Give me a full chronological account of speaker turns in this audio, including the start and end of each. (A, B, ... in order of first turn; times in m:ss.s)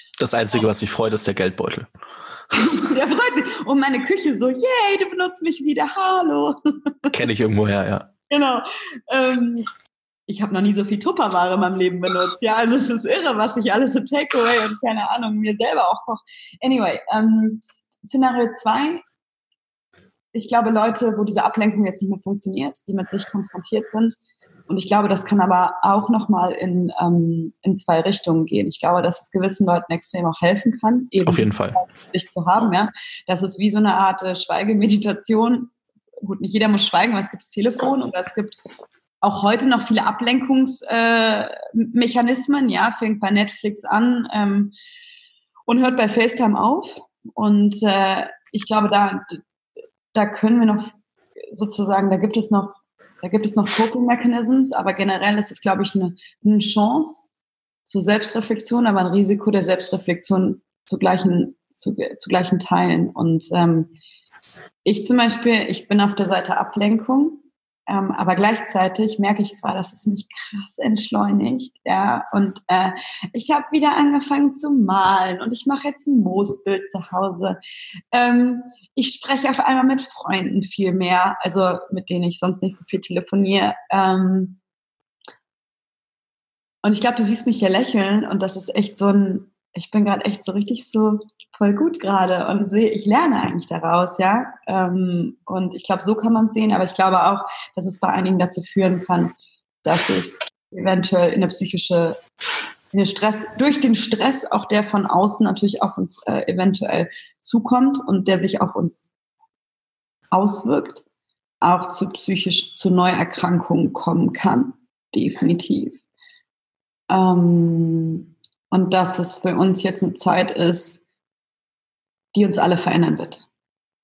0:00.2-0:01.9 A
0:02.5-0:07.1 B
0:07.1-0:08.1 A
0:08.3-0:09.7 B
0:10.3-0:19.0 B
0:20.3-0:24.1 B
0:24.7-0:38.6 B
0:31.2-0:31.8 A
0:39.2-0:44.7 B
0:45.7-0:49.4 B
0:50.1-0:50.9 B
0:51.5-0:57.3 B
0:57.9-1:03.9 B
1:04.8-1:17.6 B
1:18.1-1:24.6 B
1:26.8-1:42.2 B
1:42.9-1:49.1 B
1:50.3-1:51.0 B
1:51.6-1:56.0 B
1:57.1-2:01.0 B
2:02.3-2:03.4 B